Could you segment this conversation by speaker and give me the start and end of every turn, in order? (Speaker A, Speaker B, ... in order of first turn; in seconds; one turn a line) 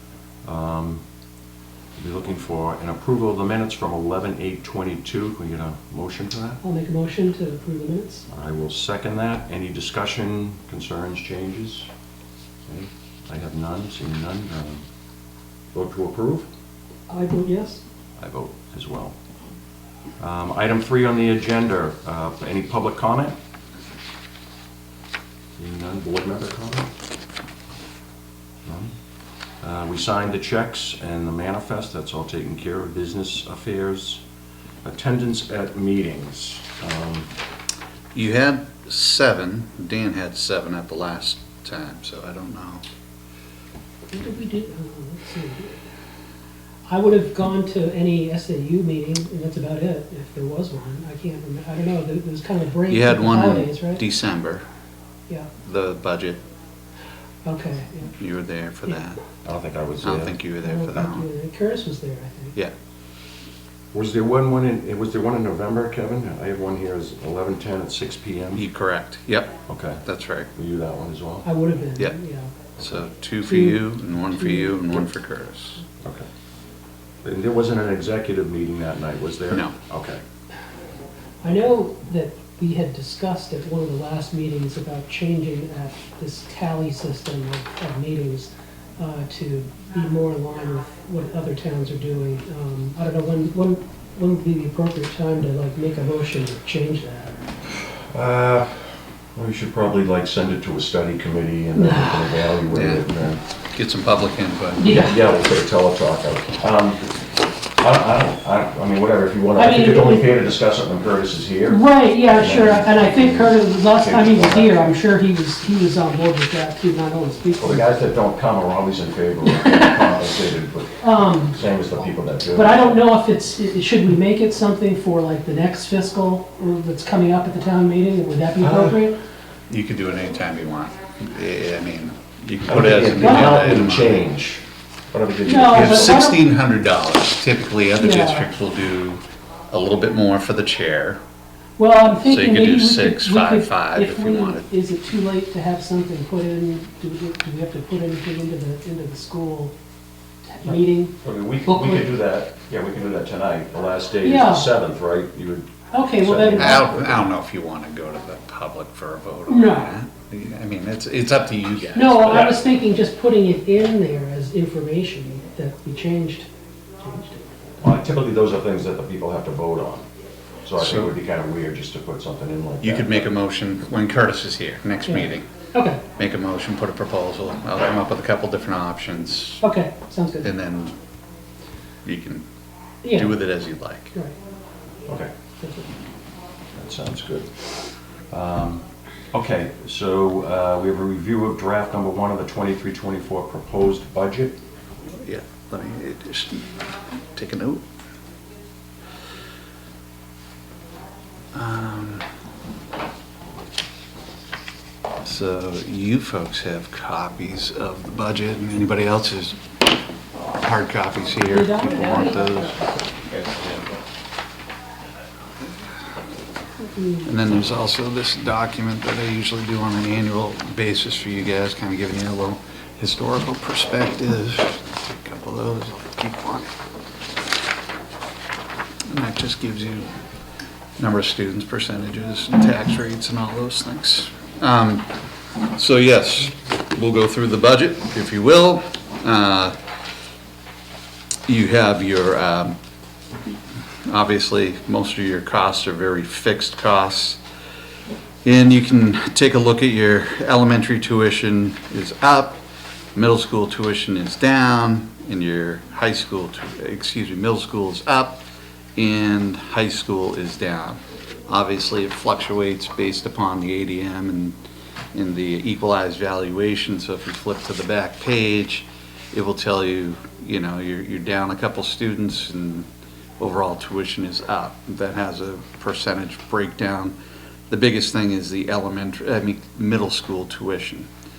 Speaker A: 0.5-1.0
Speaker A: 2.0-6.6
Speaker B: 6.6-8.3
Speaker A: 8.3-11.9
Speaker A: 12.7-14.8
Speaker A: 15.7-16.5
Speaker B: 17.1-17.8
Speaker A: 18.2-19.2
Speaker A: 20.2-23.4
Speaker A: 25.6-26.9
Speaker A: 28.6-28.9
Speaker A: 29.6-34.2
Speaker A: 34.8-37.3
Speaker C: 38.1-42.8
Speaker B: 44.1-45.8
Speaker B: 46.9-54.0
Speaker C: 52.9-54.6
Speaker C: 55.6-56.4
Speaker B: 57.5-58.1
Speaker C: 58.2-59.2
Speaker A: 59.4-60.4
Speaker C: 60.0-61.3
Speaker B: 60.6-62.5
Speaker A: 63.9-68.7
Speaker C: 68.6-70.5
Speaker A: 69.7-70.0
Speaker A: 70.5-71.5
Speaker B: 71.4-72.6
Speaker A: 72.8-73.1
Speaker C: 72.8-75.8
Speaker B: 73.5-75.1
Speaker A: 77.2-80.2
Speaker C: 79.5-79.8
Speaker B: 81.4-97.4
Speaker A: 98.1-103.4
Speaker B: 101.8-102.6
Speaker C: 102.7-103.0
Speaker C: 103.7-104.8
Speaker B: 104.8-105.2
Speaker A: 104.8-107.2
Speaker A: 107.8-114.8
Speaker B: 109.6-110.3
Speaker B: 111.7-117.9
Speaker A: 117.6-123.0
Speaker B: 119.5-120.0
Speaker B: 121.0-121.6
Speaker B: 122.5-129.2
Speaker A: 128.6-129.0
Speaker C: 129.7-134.3
Speaker A: 132.7-136.2
Speaker B: 133.2-133.8
Speaker B: 135.5-136.4
Speaker C: 135.7-141.2
Speaker B: 138.0-138.5
Speaker B: 141.8-149.7
Speaker C: 142.2-144.7
Speaker B: 150.4-151.1
Speaker A: 150.7-157.3
Speaker B: 151.7-152.1
Speaker B: 154.2-154.7
Speaker B: 155.9-156.9
Speaker C: 156.6-162.6
Speaker B: 159.5-159.9
Speaker B: 161.9-166.5
Speaker B: 167.0-167.8
Speaker A: 167.8-170.1
Speaker A: 170.7-173.3
Speaker C: 170.8-171.1
Speaker C: 172.8-175.5
Speaker B: 175.1-176.0
Speaker C: 176.2-179.6
Speaker B: 179.6-180.5
Speaker C: 180.4-181.0
Speaker C: 182.1-182.4
Speaker B: 183.0-183.4
Speaker C: 183.1-184.1
Speaker B: 185.6-185.9
Speaker A: 186.8-187.7
Speaker A: 188.3-194.6
Speaker C: 195.1-196.7
Speaker C: 197.3-197.8
Speaker C: 201.5-202.3
Speaker C: 205.2-209.6
Speaker C: 210.6-212.9
Speaker B: 211.4-213.0
Speaker B: 217.0-217.3
Speaker C: 217.2-226.7
Speaker C: 229.1-230.1
Speaker C: 231.0-235.2
Speaker C: 235.7-239.8
Speaker C: 241.5-242.8
Speaker C: 244.1-247.4
Speaker C: 248.4-252.6
Speaker C: 253.2-258.4
Speaker C: 259.0-264.6
Speaker C: 265.1-272.9
Speaker C: 273.4-277.1
Speaker C: 277.7-281.1